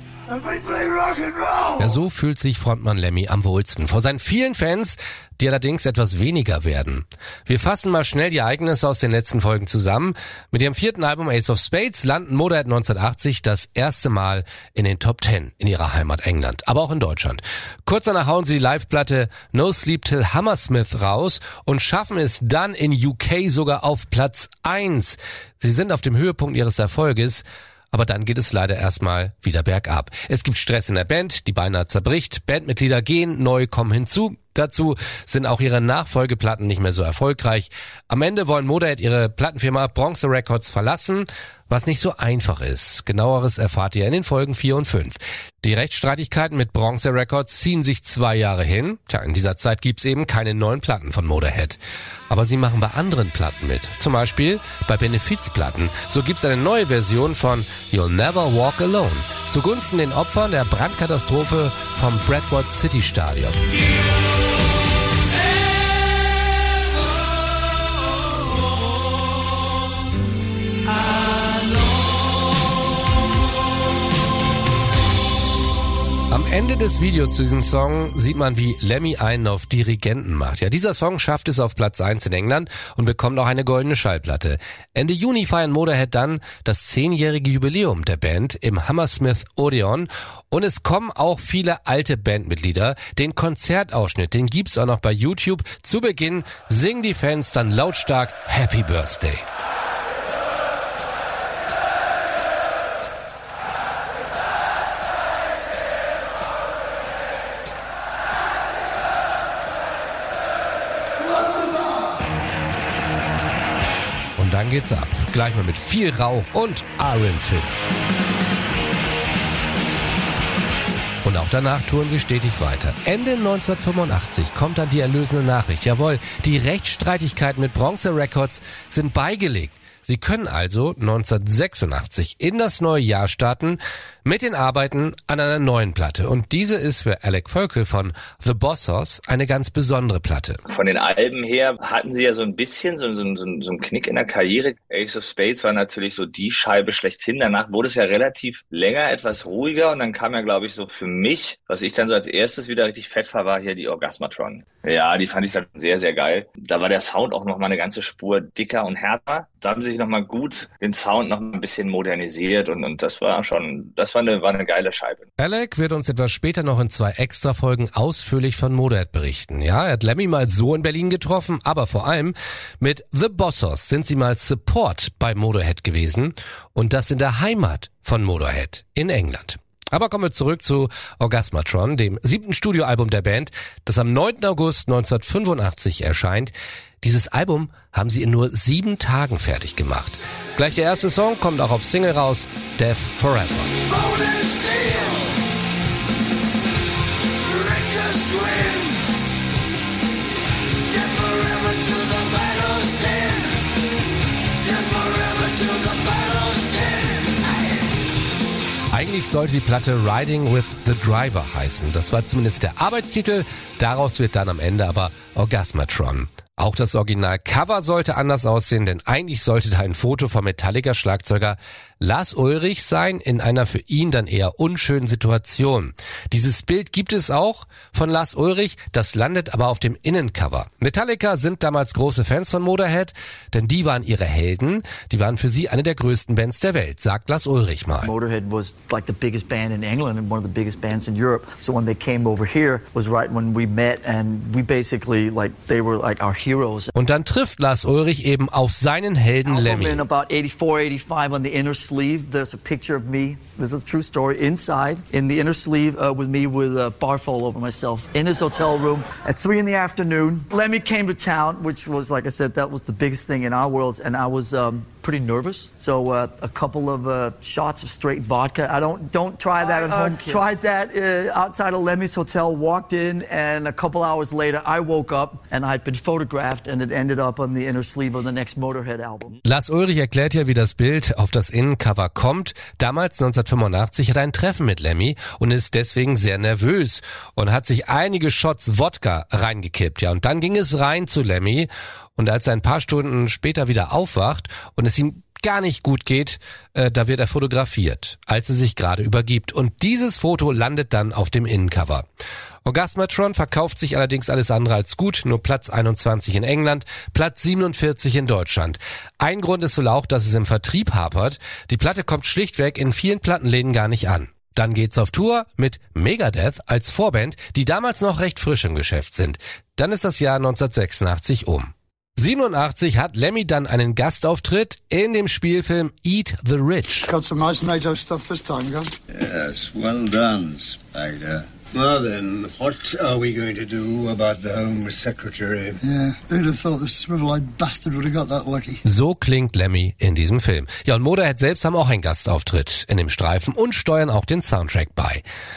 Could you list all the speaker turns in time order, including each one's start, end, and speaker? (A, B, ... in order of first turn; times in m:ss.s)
0:00.4-0:01.7 A
0:01.8-0:51.8 B
0:52.3-1:03.6 B
1:16.3-1:39.4 B
1:54.4-1:57.8 B
2:01.2-2:20.6 B
2:20.7-2:45.2 C
2:45.4-3:13.7 B
3:14.0-3:15.3 D
3:17.5-3:19.0 D
3:20.9-3:23.6 D
3:24.7-3:27.5 D
3:28.9-3:58.1 B
3:58.0-4:06.9 E
4:06.9-4:10.0 B
4:09.4-4:39.4 E
4:39.4-5:02.0 B
5:02.6-5:27.1 B
5:27.1-5:28.9 A
5:29.1-5:35.8 F
5:35.8-5:38.8 A
5:38.8-5:45.2 B